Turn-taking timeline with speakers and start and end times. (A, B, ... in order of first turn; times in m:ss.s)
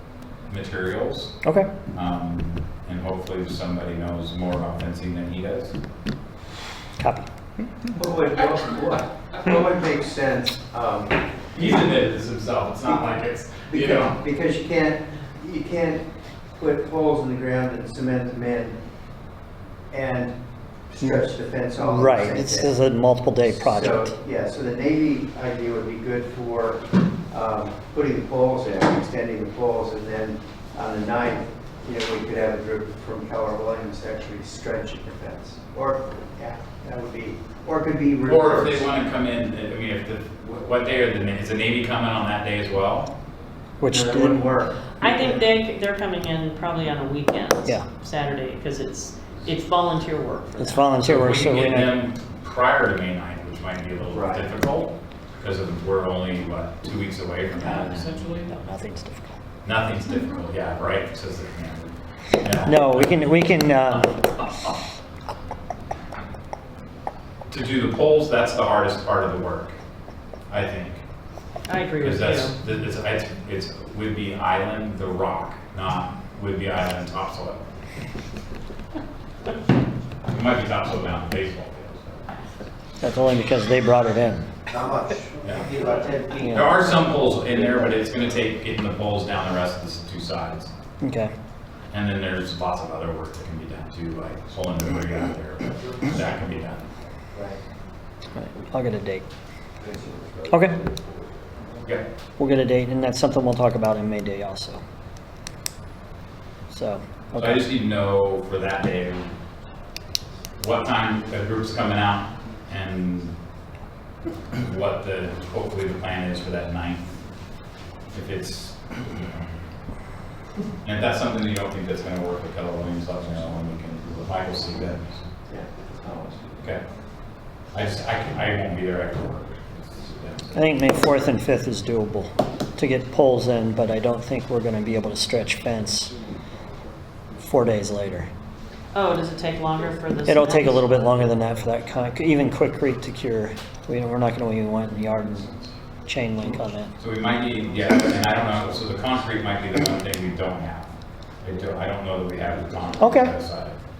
0:00.5-0:01.3 A
0:01.4-0:01.7 B
0:01.9-0:05.7 A
0:07.0-0:07.2 B
0:07.9-0:11.2 C
0:11.5-0:14.2 A
0:13.7-0:18.8 C
0:19.9-0:20.4 C
0:20.9-0:22.8 C
0:21.0-0:24.1 B
0:23.6-0:38.9 C
0:38.2-0:43.1 A
0:43.8-0:44.4 B
0:43.9-0:45.4 C
0:45.0-0:50.9 D
0:50.6-0:51.9 B
0:51.0-0:58.5 A
0:54.1-0:54.5 C
0:57.6-0:59.4 B
0:59.6-1:03.0 A
1:02.6-1:04.2 B
1:07.5-1:09.7 A
1:10.5-1:11.0 A
1:11.7-1:12.6 D
1:12.0-1:17.7 A
1:20.3-1:22.3 A
1:23.0-1:24.5 B
1:24.7-1:28.0 C
1:25.4-1:25.7 A
1:26.4-1:26.7 B
1:26.5-1:30.7 A
1:31.0-1:31.3 B
1:31.9-1:36.8 A
1:37.3-1:37.6 C
1:38.3-1:39.2 B
1:39.8-1:41.6 C
1:40.5-1:40.8 B
1:42.4-1:44.8 B
1:46.7-1:47.7 B
1:47.3-1:49.3 A
1:50.6-1:53.3 A
1:54.5-1:57.1 A
1:58.1-1:59.4 A
2:00.8-2:05.2 A
2:05.5-2:06.6 C
2:07.7-2:10.7 A
2:10.5-2:16.1 B
2:17.4-2:18.3 B
2:18.9-2:21.4 D
2:20.2-2:25.5 B
2:26.1-2:26.9 B
2:27.0-2:33.8 A
2:33.0-2:33.3 B